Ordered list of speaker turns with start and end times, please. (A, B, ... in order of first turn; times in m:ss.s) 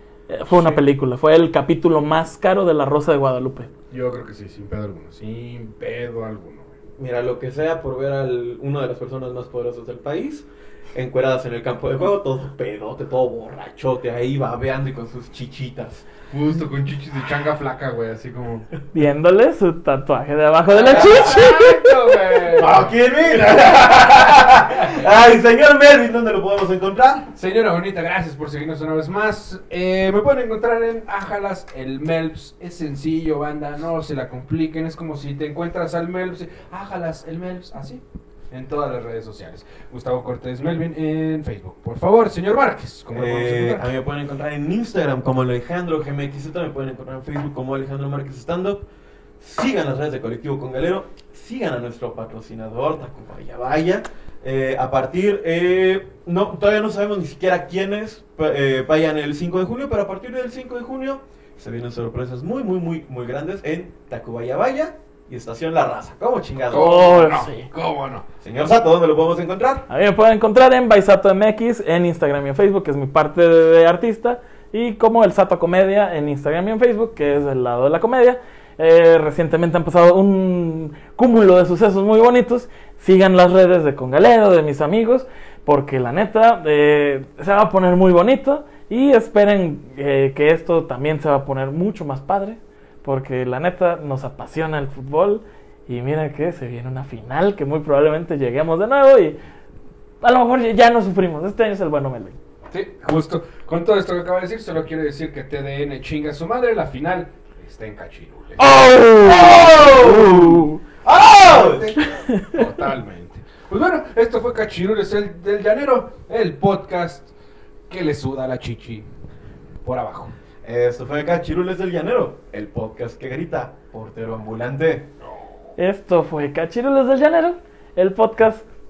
0:00.3-0:03.7 A
0:00.5-0:00.8 B
0:03.9-0:06.7 B
0:07.0-0:16.1 C
0:16.3-0:18.7 B
0:18.9-0:22.0 A
0:20.8-0:25.1 B
0:20.8-0:21.4 C
0:22.4-0:27.3 C
0:27.3-0:43.9 B
0:43.1-0:48.8 C
0:49.4-1:06.9 C
1:06.7-1:08.3 B
1:06.7-1:07.7 A
1:08.4-1:09.8 C
1:09.9-1:39.4 A
1:40.2-1:42.4 A
1:42.7-1:50.6 B
1:48.6-1:50.8 A
1:49.2-1:51.9 C
1:51.4-1:57.3 B
1:52.0-1:52.6 A
1:57.9-1:59.1 B
1:59.8-2:00.3 B
2:00.6-2:05.1 C
2:05.8-2:08.6 A